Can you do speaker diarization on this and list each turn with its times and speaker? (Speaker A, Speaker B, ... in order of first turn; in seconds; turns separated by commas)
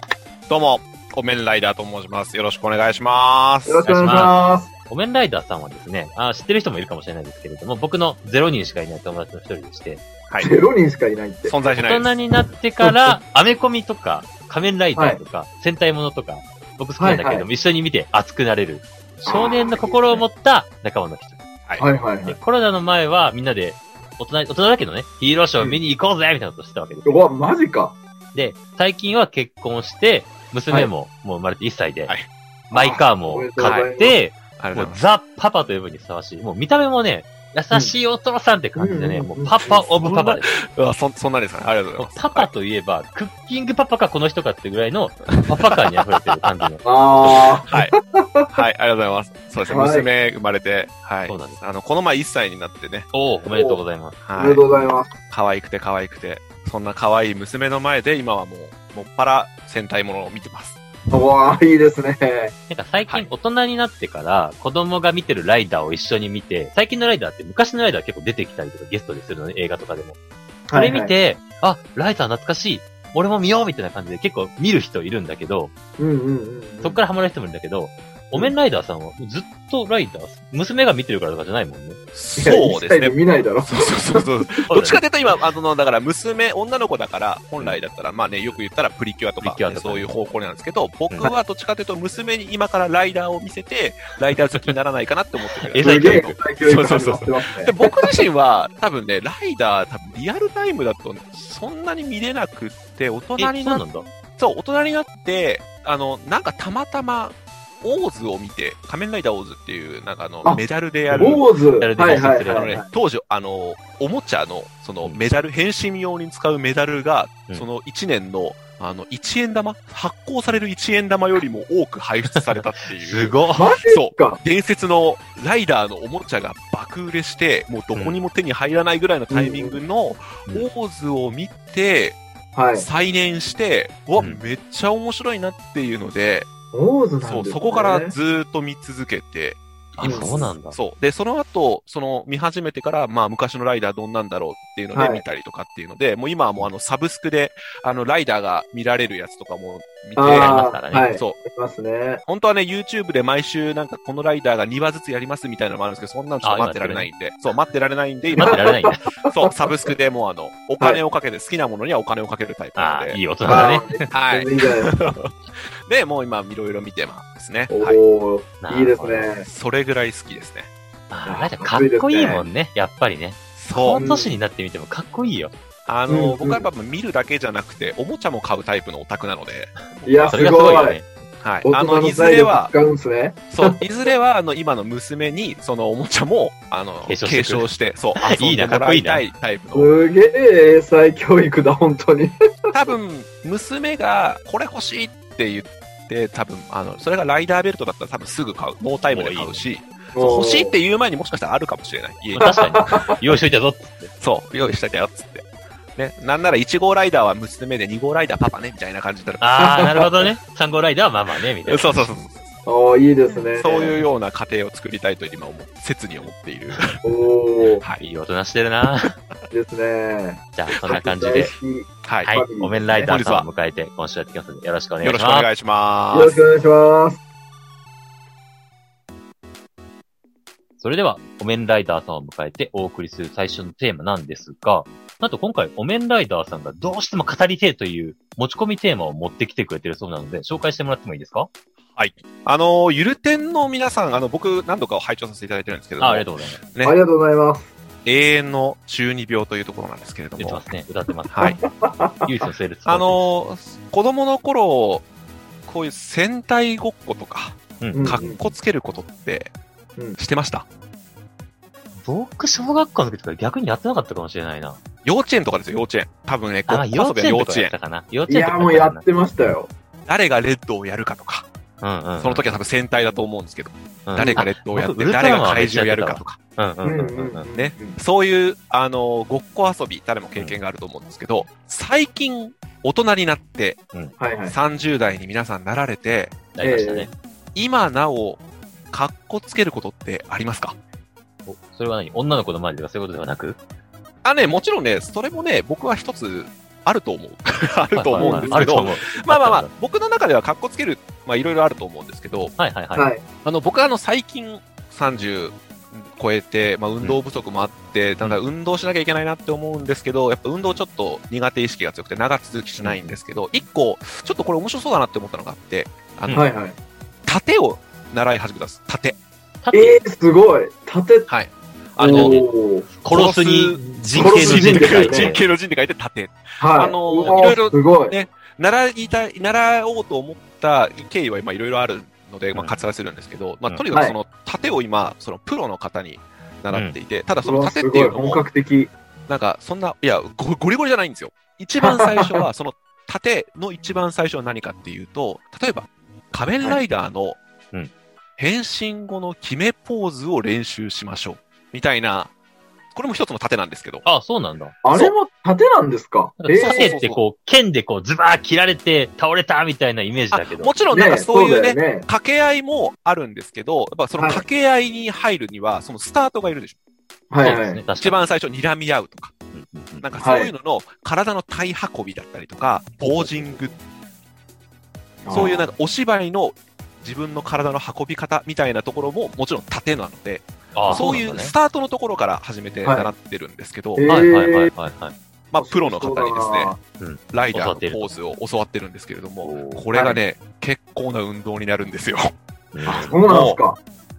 Speaker A: 0.5-3.8, Speaker B: 3.6-4.7, Speaker C: 3.8-10.0, Speaker A: 10.3-10.5, Speaker B: 10.4-11.6, Speaker A: 11.4-12.1, Speaker C: 11.7-21.4, Speaker B: 12.8-13.2, Speaker B: 17.0-17.5, Speaker B: 19.2-20.2, Speaker B: 21.8-22.4, Speaker C: 22.2-27.1, Speaker B: 27.0-28.0, Speaker C: 28.3-32.1, Speaker B: 32.7-34.2, Speaker C: 32.7-40.6, Speaker A: 33.6-33.9, Speaker A: 34.6-35.0, Speaker B: 38.8-39.8, Speaker A: 39.6-42.5, Speaker C: 42.0-46.8, Speaker A: 45.3-46.0, Speaker B: 46.8-48.5, Speaker A: 47.2-47.9, Speaker A: 48.5-53.1, Speaker B: 49.6-50.1, Speaker C: 51.2-51.6, Speaker C: 53.1-54.2, Speaker B: 53.5-53.8, Speaker A: 54.2-54.6, Speaker B: 54.4-55.1, Speaker A: 55.3-60.8, Speaker B: 61.1-62.5, Speaker C: 62.7-70.2, Speaker B: 70.7-71.1, Speaker C: 70.7-75.7, Speaker B: 76.0-77.0, Speaker C: 76.8-82.0, Speaker A: 82.1-103.8, Speaker B: 82.4-84.4, Speaker C: 84.7-85.0, Speaker C: 89.4-90.1, Speaker C: 95.6-96.4, Speaker B: 95.8-98.0, Speaker C: 103.4-104.1, Speaker A: 104.4-111.4, Speaker B: 110.4-112.9, Speaker C: 111.1-112.8, Speaker A: 112.1-123.4, Speaker C: 122.3-123.7, Speaker B: 123.5-124.4, Speaker A: 123.9-132.2, Speaker C: 127.9-128.2, Speaker B: 129.3-129.8, Speaker B: 132.5-132.8, Speaker A: 132.7-136.5, Speaker B: 136.7-138.1, Speaker A: 137.2-151.4, Speaker C: 140.0-140.8, Speaker B: 140.0-140.5, Speaker B: 144.9-145.2, Speaker B: 150.2-152.2, Speaker C: 150.3-151.1, Speaker A: 152.2-168.0, Speaker C: 156.4-157.1, Speaker B: 158.3-159.9, Speaker C: 158.3-159.0, Speaker C: 162.8-164.1, Speaker B: 163.5-165.0, Speaker B: 167.7-169.5, Speaker C: 168.6-169.3, Speaker A: 169.4-170.7, Speaker C: 171.1-175.5, Speaker B: 171.2-172.4, Speaker A: 172.2-172.4, Speaker A: 173.6-174.1, Speaker B: 173.9-174.4, Speaker A: 175.9-180.5, Speaker B: 176.1-176.7, Speaker B: 180.0-181.0, Speaker C: 180.3-181.1, Speaker A: 181.4-182.7, Speaker B: 181.6-183.8, Speaker A: 183.5-189.9, Speaker C: 187.0-189.2, Speaker B: 189.7-192.7, Speaker A: 192.7-203.3, Speaker C: 199.1-199.5, Speaker B: 200.1-200.8, Speaker C: 202.3-204.1, Speaker B: 202.4-203.1, Speaker A: 204.2-209.4, Speaker C: 209.4-212.2, Speaker B: 209.6-210.3, Speaker A: 211.6-212.4, Speaker B: 212.7-214.0, Speaker A: 213.6-217.0, Speaker B: 217.0-217.8, Speaker C: 218.0-219.1, Speaker B: 219.5-223.1, Speaker C: 220.6-221.5, Speaker A: 222.0-222.3, Speaker C: 222.2-225.5, Speaker A: 223.0-223.5, Speaker A: 225.0-226.4, Speaker B: 226.1-227.2, Speaker C: 230.8-241.5, Speaker A: 241.9-247.0, Speaker C: 246.0-246.6, Speaker B: 246.8-247.7, Speaker A: 248.0-250.7, Speaker C: 250.4-251.6, Speaker A: 251.3-251.6, Speaker B: 251.7-252.3, Speaker C: 252.2-253.3, Speaker A: 252.8-255.1, Speaker A: 255.7-259.5, Speaker C: 257.8-258.3, Speaker B: 257.9-258.4, Speaker A: 260.2-260.6, Speaker C: 262.0-264.8, Speaker A: 265.0-267.7, Speaker C: 266.7-269.0, Speaker B: 268.3-269.7, Speaker A: 270.1-271.4, Speaker C: 271.8-272.4, Speaker A: 272.2-276.4, Speaker C: 274.1-277.5, Speaker B: 274.2-274.4, Speaker B: 276.8-278.0, Speaker A: 277.5-283.8, Speaker B: 284.2-284.6, Speaker A: 284.5-286.4, Speaker C: 286.5-287.1, Speaker B: 286.6-287.1, Speaker A: 287.5-290.8, Speaker C: 291.4-293.6, Speaker A: 294.2-302.5, Speaker C: 297.9-299.7, Speaker B: 298.2-298.8, Speaker C: 302.6-303.1, Speaker B: 302.9-303.2, Speaker A: 303.4-316.4, Speaker C: 312.8-313.2, Speaker B: 316.3-316.8, Speaker A: 317.3-319.2, Speaker C: 319.6-320.0, Speaker B: 319.7-321.3, Speaker A: 321.3-322.4, Speaker B: 322.0-322.9, Speaker C: 322.1-322.5, Speaker C: 323.0-325.4, Speaker A: 323.1-338.4, Speaker B: 324.1-325.4, Speaker B: 326.6-328.1, Speaker C: 332.5-332.8, Speaker C: 336.7-337.0, Speaker B: 337.4-338.9, Speaker A: 339.3-347.4, Speaker B: 341.8-342.5, Speaker A: 348.4-352.3, Speaker A: 352.9-354.0, Speaker C: 354.0-354.8, Speaker B: 354.8-356.9, Speaker C: 356.4-360.8, Speaker A: 356.6-357.2, Speaker A: 360.3-366.8, Speaker B: 360.9-362.1, Speaker B: 364.2-364.4, Speaker B: 367.3-367.8, Speaker C: 367.4-368.2, Speaker A: 368.0-369.3, Speaker C: 369.5-370.1, Speaker A: 370.0-373.8, Speaker B: 370.2-370.5, Speaker C: 373.0-373.7, Speaker B: 375.2-375.7, Speaker A: 375.3-384.1, Speaker C: 380.7-381.5, Speaker B: 382.8-383.1, Speaker B: 383.9-384.7, Speaker C: 384.1-385.1, Speaker A: 385.5-386.7, Speaker B: 385.6-386.8, Speaker C: 387.0-388.1, Speaker A: 387.3-392.3, Speaker C: 389.4-389.8, Speaker C: 392.7-393.2, Speaker B: 392.8-393.8, Speaker A: 393.2-393.6